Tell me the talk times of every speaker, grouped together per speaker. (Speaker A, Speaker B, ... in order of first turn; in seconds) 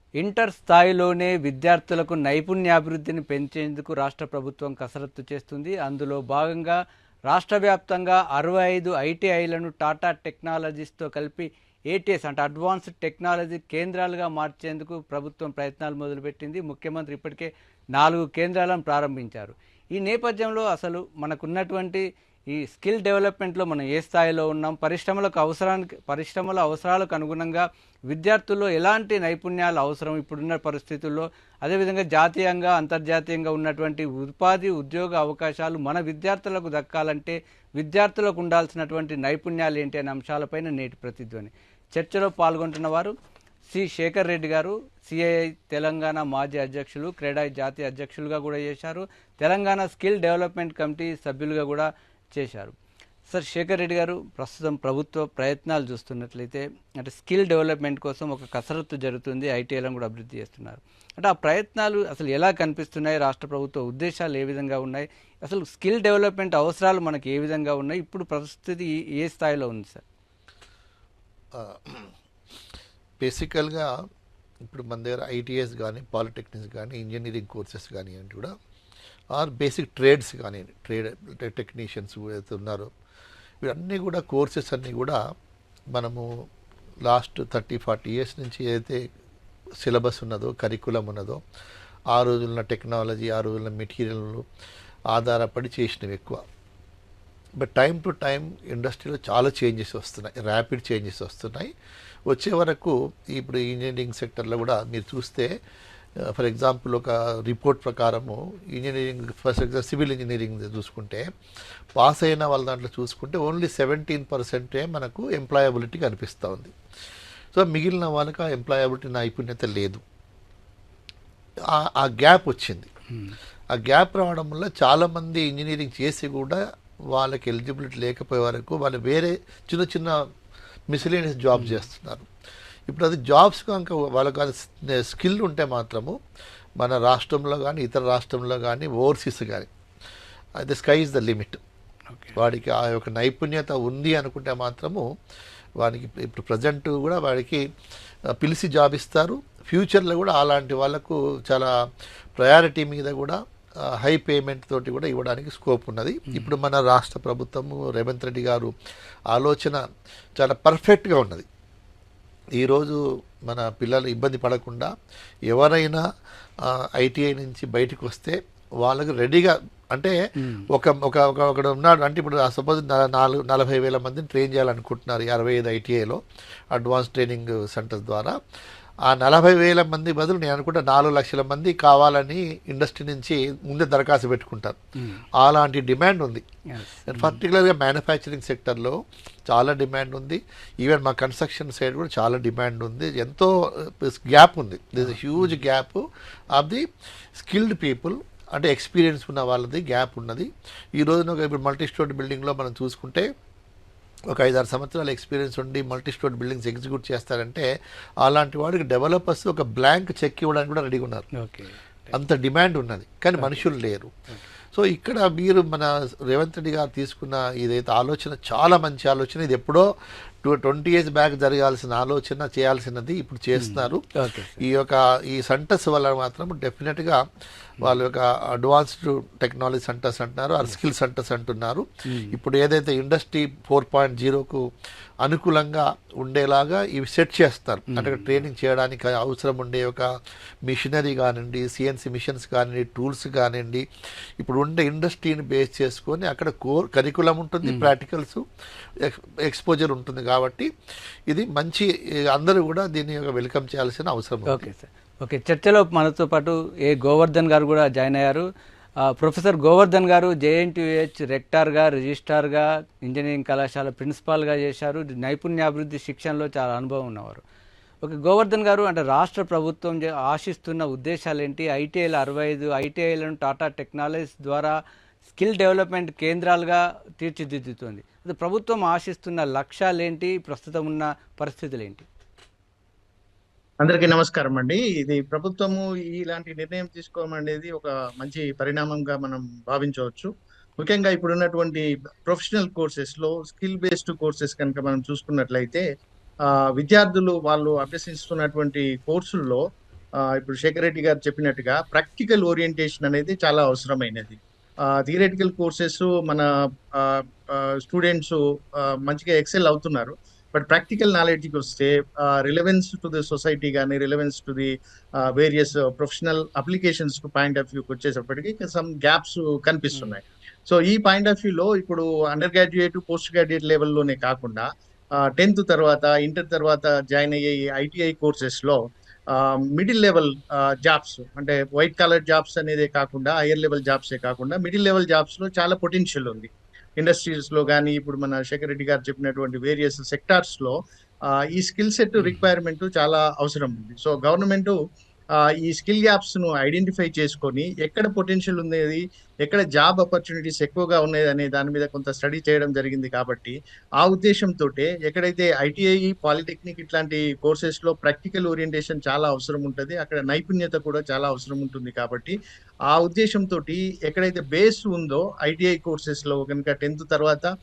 Speaker A: 0.2-43.1, 43.7-52.8, 53.3-70.0, 131.6-131.8, 142.1-142.4, 156.3-156.5, 170.4-170.7, 185.0-185.2, 186.7-187.4, 195.0-195.6, 211.4-212.1, 213.4-213.6, 223.6-224.6, 232.1-232.4, 237.9-238.4, 247.6-247.9, 254.5-258.5, 259.1-267.4, 268.0-274.8, 275.3-282.1, 342.2-342.4
Speaker B: 71.5-72.1, 73.2-73.9, 74.6-78.5, 79.3-82.9, 83.6-85.2, 86.0-86.3, 87.1-89.0, 89.8-91.4, 92.1-94.5, 95.1-96.4, 97.6-101.7, 102.3-105.5, 106.2-111.3, 112.0-116.7, 117.5-120.0, 121.7-122.9, 123.7-126.6, 127.1-130.2, 130.9-132.3, 132.9-136.2, 136.8-139.7, 140.6-141.6, 142.3-145.1, 145.8-147.6, 148.3-151.7, 152.4-158.7, 159.3-159.8, 160.4-161.5, 162.6-164.9, 165.5-166.0, 166.6-170.2, 170.7-176.2, 176.7-178.4, 179.1-184.8, 185.3-186.4, 187.1-203.3, 204.3-207.7, 208.2-211.3, 212.1-214.1, 214.7-219.9, 220.4-224.1, 224.6-227.2, 227.8-234.7, 235.2-240.1, 240.7-243.8, 244.4-248.4, 249.0-250.7, 251.3-254.6
Speaker C: 283.8-295.9, 296.5-299.6, 300.2-314.7, 315.2-324.7, 325.2-328.8, 329.3-340.8, 341.3-344.8, 345.4-362.4, 362.9-367.5